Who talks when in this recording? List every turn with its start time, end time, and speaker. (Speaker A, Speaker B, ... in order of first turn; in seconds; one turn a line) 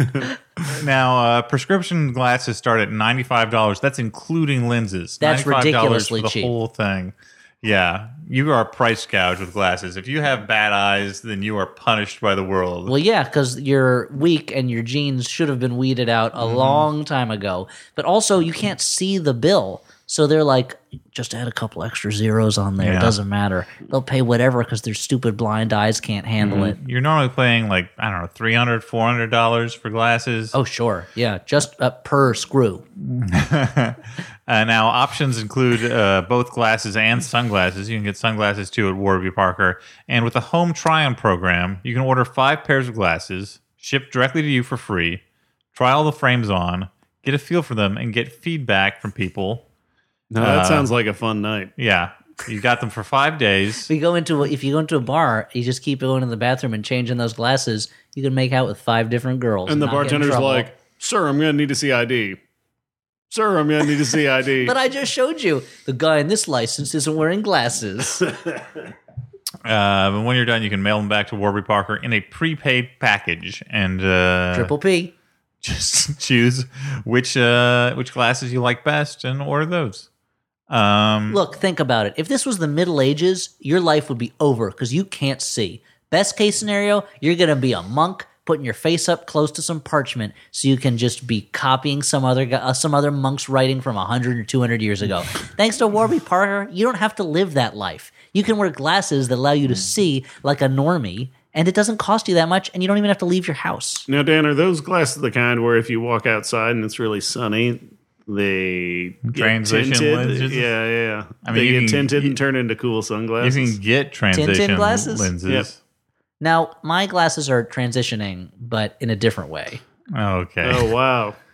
Speaker A: 0.7-12.9
Speaker B: 5.2-6.5
Speaker B: 12.9-26.8
Speaker A: 16.4-16.9
Speaker A: 22.8-23.1
Speaker A: 26.4-30.5
Speaker B: 30.5-32.8
Speaker A: 33.0-45.2
Speaker A: 45.7-49.6
Speaker C: 50.3-51.7
Speaker A: 50.4-50.9
Speaker A: 51.8-53.9
Speaker B: 53.9-60.7
Speaker C: 59.6-62.4
Speaker C: 63.3-64.8
Speaker B: 64.6-68.3
Speaker A: 69.6-74.7
Speaker B: 74.5-75.1
Speaker A: 75.6-80.1
Speaker A: 80.7-81.4
Speaker B: 81.3-104.0
Speaker C: 104.1-113.8
Speaker A: 109.3-110.7
Speaker A: 111.4-112.3
Speaker A: 113.4-115.8
Speaker B: 114.3-115.3
Speaker B: 116.4-119.8
Speaker A: 120.1-120.9
Speaker C: 120.6-121.4